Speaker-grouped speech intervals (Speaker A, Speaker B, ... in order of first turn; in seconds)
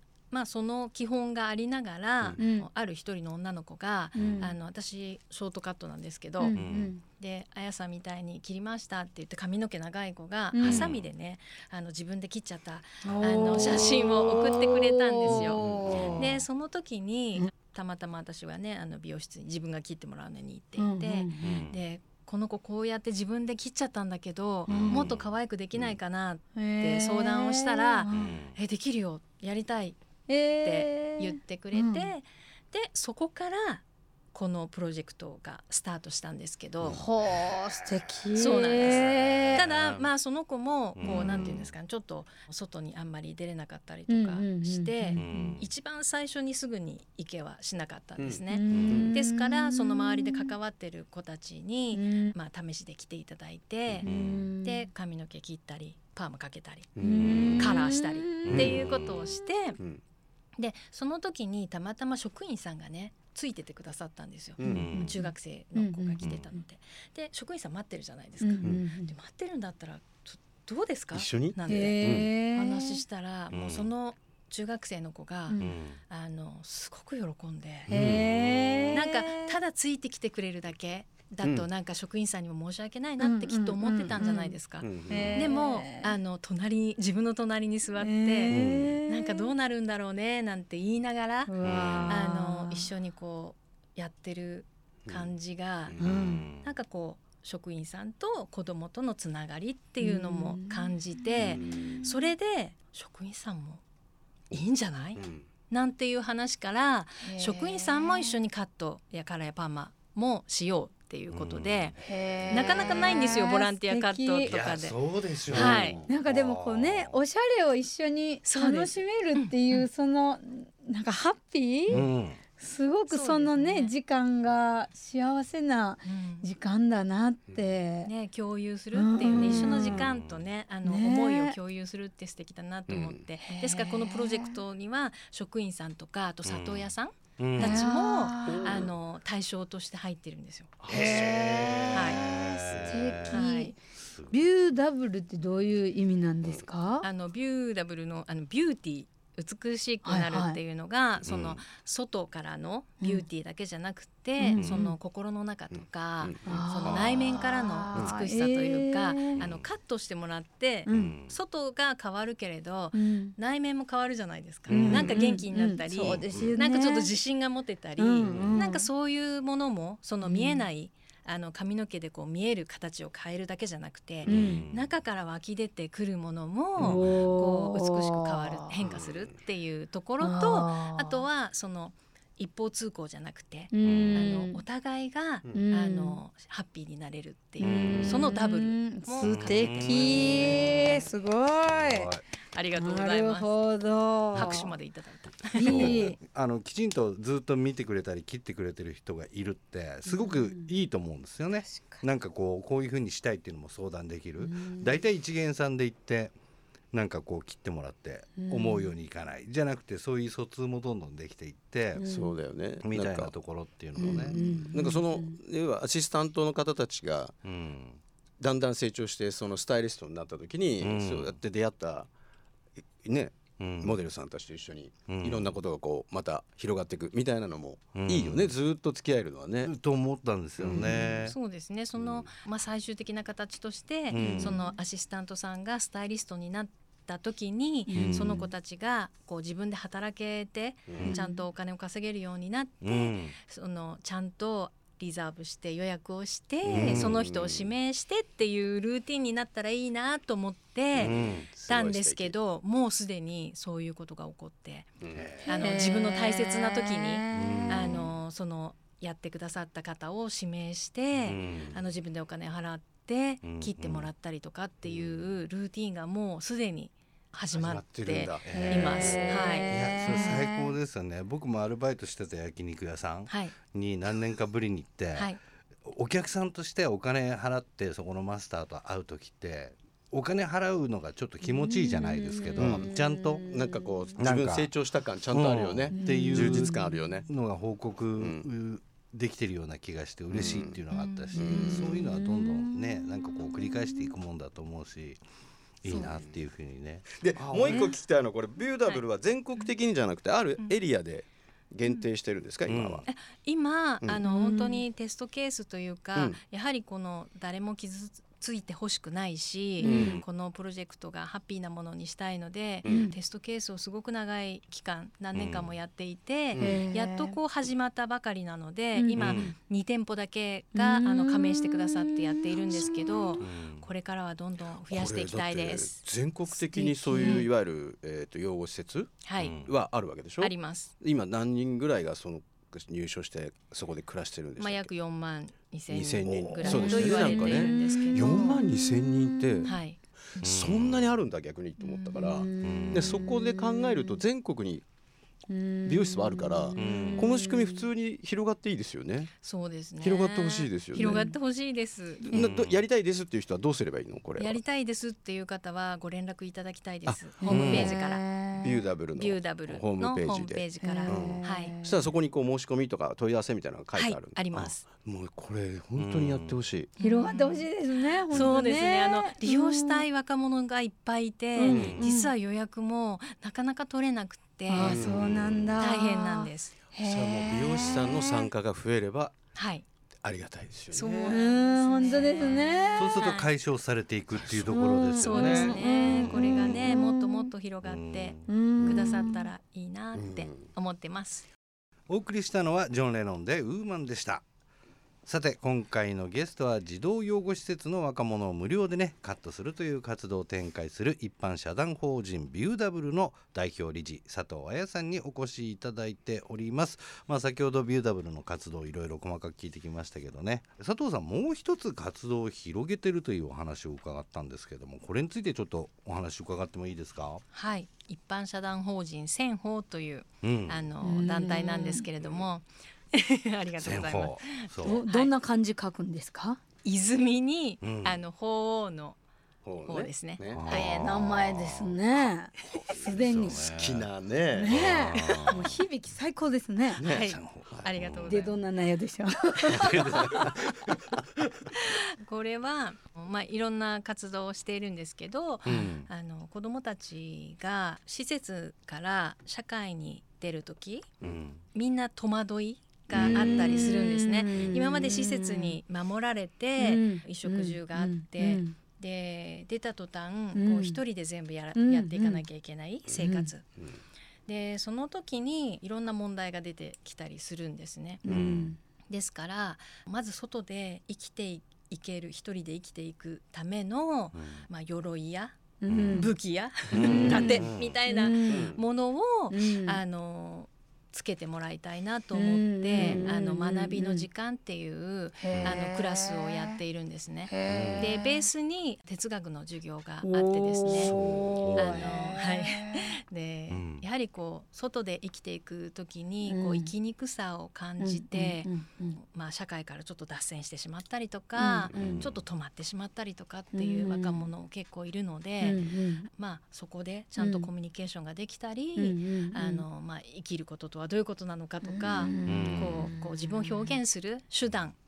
Speaker A: 0.3-6.5, 7.1-30.0, 30.6-37.1, 38.4-54.1, 54.6-57.0, 57.5-59.8, 60.6-77.9, 78.9-91.5, 92.1-96.0, 96.6-103.8, 104.5-115.0, 115.5-116.0, 118.4-119.9, 123.1-123.9, 126.0-126.5, 128.0-140.8, 141.9-142.2, 143.3-143.7, 147.0-191.0, 192.5-193.5, 194.3-196.2, 231.3-254.9, 255.4-269.7, 273.3-273.5, 303.1-326.0, 329.2-329.6, 330.4-330.9, 334.6-338.6, 339.6-340.0, 349.4-352.2, 354.4-361.7, 363.9-364.9, 367.0-367.7, 368.3-375.0, 375.8-376.7, 379.5-379.8, 380.9-383.5, 385.2-391.5, 417.5-425.3, 426.8-429.2, 429.9-431.2, 435.1-435.5, 437.0-438.6, 441.7-451.1, 451.7-463.6, 464.4-468.2, 469.1-475.6, 476.1-491.2, 491.8-515.0
Speaker B: 2.4-2.7, 4.1-4.5, 6.4-7.0, 10.5-10.9, 13.0-16.4, 20.8-21.5, 26.5-28.3, 30.3-32.1, 36.8-39.7, 44.1-45.5, 48.5-50.5, 51.9-52.3, 54.0-54.9, 57.0-58.7, 64.7-66.6, 68.4-69.1, 71.7-73.0, 75.5-75.7, 77.9-79.5, 83.2-86.1, 88.0-89.5, 91.5-92.9, 96.0-96.5, 100.0-101.1, 102.0-102.3, 107.2-108.3, 112.0-114.5, 115.7-128.1, 128.9-130.1, 130.8-131.6, 133.4-134.6, 137.6-138.8, 140.9-143.8, 144.3-147.1, 150.0-150.6, 154.4-154.9, 156.4-159.4, 160.8-161.1, 162.9-163.3, 164.7-167.1, 168.0-168.9, 170.2-170.7, 174.3-174.6, 176.8-178.7, 180.2-181.2, 183.7-184.6, 185.5-186.2, 187.6-192.1, 192.7-194.7, 195.5-196.2, 200.1-200.7, 201.7-202.0, 204.4-204.9, 208.4-208.9, 212.0-212.3, 214.0-215.3, 230.7-231.0, 234.2-234.8, 237.9-238.5, 241.0-241.4, 255.4-258.1, 268.5-270.7, 281.4-284.1, 285.9-287.0, 290.9-294.1, 304.2-304.8, 309.8-310.2, 312.9-313.1, 316.6-317.4, 318.9-319.5, 320.7-323.4, 326.5-327.4, 336.6-339.7, 341.8-344.2, 345.5-347.8, 351.0-351.3, 357.4-358.7, 360.8-362.1, 367.0-370.0, 371.5-372.3, 374.7-378.5, 381.3-383.3, 384.7-387.5, 388.5-389.5, 421.0-422.0, 424.8-426.6, 430.7-433.7, 434.5-437.0, 438.2-440.3, 453.1-455.8, 456.8-458.7, 460.5-461.0, 461.7-462.4, 463.1-463.5, 468.2-468.8, 475.8-476.3, 477.0-478.8, 479.5-480.0, 482.3-484.2, 485.4-486.8, 487.5-488.4, 490.2-493.1, 496.4-496.9, 498.0-499.2, 501.6-501.9, 503.7-504.4, 505.6-506.3, 507.4-507.7, 508.9-509.8, 511.8-513.9
Speaker C: 4.2-4.5, 10.7-10.9, 15.3-16.2, 24.7-25.1, 41.0-41.5, 48.2-49.1, 57.0-57.8, 58.4-59.2, 64.6-64.9, 71.1-72.3, 77.9-78.2, 81.4-81.7, 84.8-85.4, 88.5-89.0, 95.9-96.2, 101.4-102.0, 105.2-105.4, 115.5-116.0, 132.9-133.2, 138.4-138.9, 140.8-141.7, 155.7-158.2, 164.7-165.3, 178.8-179.3, 187.7-188.2, 212.0-213.3, 214.0-217.3, 218.4-222.1, 223.0-229.7, 230.6-230.9, 232.0-232.3, 240.9-241.2, 246.6-247.7, 250.9-252.3, 255.0-255.3, 257.6-258.0, 261.3-261.8, 267.5-269.6, 282.6-287.3, 288.2-288.4, 290.3-290.8, 291.4-291.9, 296.0-296.3, 297.1-303.0, 309.8-310.2, 312.8-313.1, 315.3-315.6, 316.5-316.9, 324.9-329.1, 329.6-334.9, 335.9-339.7, 340.3-344.8, 345.8-349.3, 350.0-351.3, 352.2-354.6, 357.1-357.9, 358.6-366.9, 371.6-372.0, 374.8-375.7, 377.0-379.4, 380.2-381.4, 382.3-382.7, 384.3-384.7, 386.0-386.9, 388.8-389.3, 390.1-390.7, 429.6-430.8, 433.7-434.8, 437.0-437.9, 468.2-468.7, 478.5-478.8, 485.5-485.8, 487.7-488.1, 490.9-492.4, 501.9-502.2
Speaker D: 6.5-6.9, 21.4-21.8, 24.7-25.2, 28.1-28.6, 38.8-40.0, 41.0-41.7, 45.1-45.7, 48.7-49.1, 54.0-54.4, 57.2-57.5, 64.6-65.2, 66.2-66.5, 73.5-73.9, 75.6-76.0, 78.1-78.9, 91.6-92.2, 96.0-96.7, 111.3-112.1, 114.4-117.2, 121.9-122.4, 129.4-130.4, 136.4-137.9, 140.9-143.4, 143.9-144.3, 151.2-151.6, 154.5-154.8, 159.3-159.6, 160.9-161.3, 168.3-168.6, 174.2-174.9, 183.8-184.2, 187.6-188.4, 189.2-191.1, 191.6-192.2, 195.6-206.3, 206.9-212.0, 212.8-214.4, 217.4-218.0, 220.8-221.4, 223.6-224.0, 225.1-225.6, 227.9-228.5, 229.7-231.3, 234.1-234.6, 237.9-238.4, 242.8-243.3, 246.7-247.1, 251.0-251.5, 255.1-255.5, 257.3-257.7, 261.2-261.7, 263.4-264.1, 268.4-275.3, 275.8-283.5, 284.2-284.7, 285.3-295.2, 295.8-297.9, 302.6-303.0, 319.1-319.5, 323.4-323.8, 329.4-329.7, 336.3-336.6, 340.4-341.1, 342.6-343.2, 346.7-347.3, 352.3-352.8, 357.5-357.9, 365.9-366.6, 371.7-372.0, 374.9-375.7, 382.9-386.5, 387.8-388.5, 392.1-394.4, 395.2-417.4, 420.4-420.9, 423.8-425.0, 427.8-428.2, 430.5-432.0, 432.9-434.1, 434.7-435.8, 437.1-438.5, 439.7-440.5, 445.6-446.1, 451.2-451.6, 468.3-468.7, 474.3-474.6, 475.9-476.3, 476.9-477.9, 493.7-494.0, 501.9-502.4, 512.5-513.1